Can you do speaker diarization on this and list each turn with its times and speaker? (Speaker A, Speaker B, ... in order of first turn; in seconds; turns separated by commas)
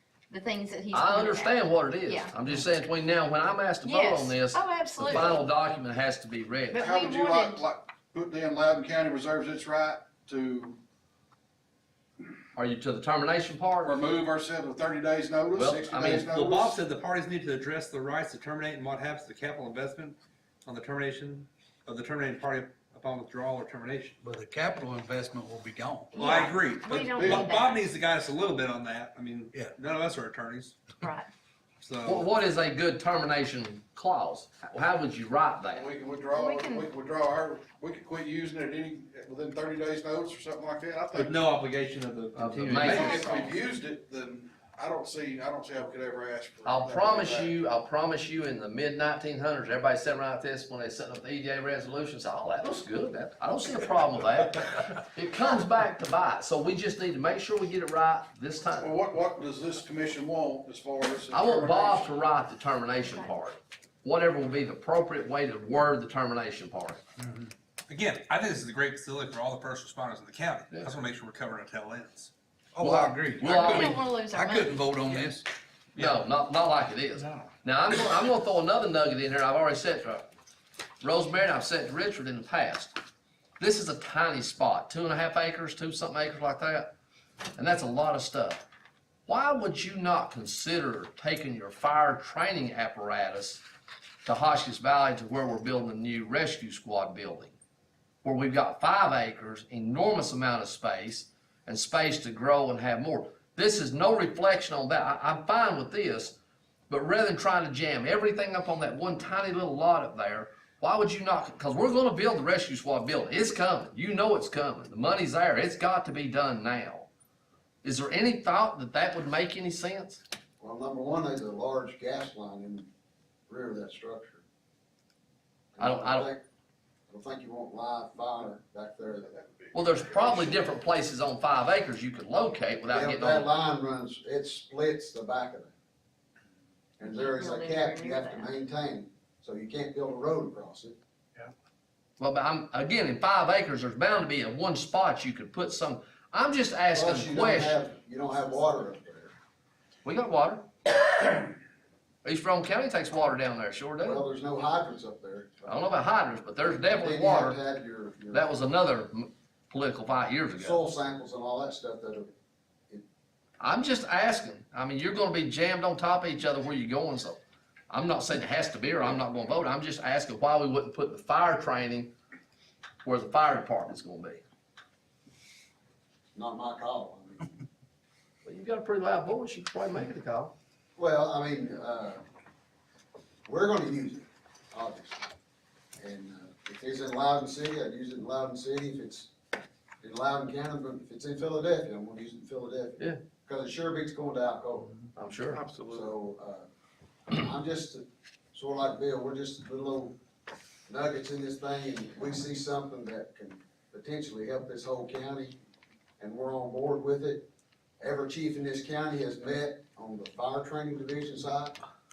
Speaker A: 0.3-2.3, Speaker B: 0.9-6.8, Speaker A: 3.8-5.5, Speaker A: 6.7-7.7, Speaker C: 6.8-10.8, Speaker B: 12.5-14.0, Speaker C: 13.8-16.8, Speaker B: 15.5-16.3, Speaker D: 16.2-24.1, Speaker E: 24.2-26.1, Speaker A: 26.1-27.9, Speaker D: 26.1-30.8, Speaker C: 27.0-27.4, Speaker A: 31.0-31.3, Speaker D: 31.8-32.3, Speaker B: 32.0-35.9, Speaker C: 35.7-41.5, Speaker A: 36.3-36.9, Speaker D: 41.1-43.5, Speaker B: 42.3-43.1, Speaker C: 42.7-47.6, Speaker A: 42.9-43.5, Speaker B: 46.6-59.0, Speaker C: 58.8-62.2, Speaker B: 61.3-67.0, Speaker A: 63.0-63.3, Speaker D: 67.9-73.8, Speaker E: 72.7-75.5, Speaker B: 72.8-73.9, Speaker A: 73.5-74.9, Speaker D: 76.0-76.3, Speaker B: 76.0-80.3, Speaker B: 81.0-83.0, Speaker B: 83.6-86.9, Speaker B: 87.5-88.6, Speaker B: 89.3-93.6, Speaker B: 94.2-97.5, Speaker B: 98.2-106.4, Speaker B: 106.9-117.1, Speaker B: 117.8-120.2, Speaker F: 120.6-122.9, Speaker F: 123.5-124.4, Speaker F: 125.8-126.4, Speaker B: 125.8-126.3, Speaker F: 127.1-129.3, Speaker C: 129.1-130.7, Speaker B: 129.7-133.5, Speaker F: 132.9-135.7, Speaker F: 137.0-141.0, Speaker A: 137.0-138.6, Speaker B: 142.2-147.8, Speaker F: 146.9-149.3, Speaker B: 150.0-150.7, Speaker B: 152.2-154.2, Speaker F: 154.0-155.8, Speaker B: 155.7-157.6, Speaker F: 156.6-158.5, Speaker B: 158.3-160.8, Speaker F: 160.5-162.3, Speaker B: 163.6-172.1, Speaker B: 173.0-174.4, Speaker F: 176.3-177.5, Speaker B: 178.4-180.5, Speaker F: 180.9-182.2, Speaker F: 183.5-185.3, Speaker F: 186.0-189.3, Speaker F: 190.0-195.0, Speaker B: 195.1-195.7, Speaker F: 195.8-196.7, Speaker F: 197.3-200.2, Speaker F: 200.9-205.6, Speaker F: 206.2-207.5, Speaker F: 208.0-211.8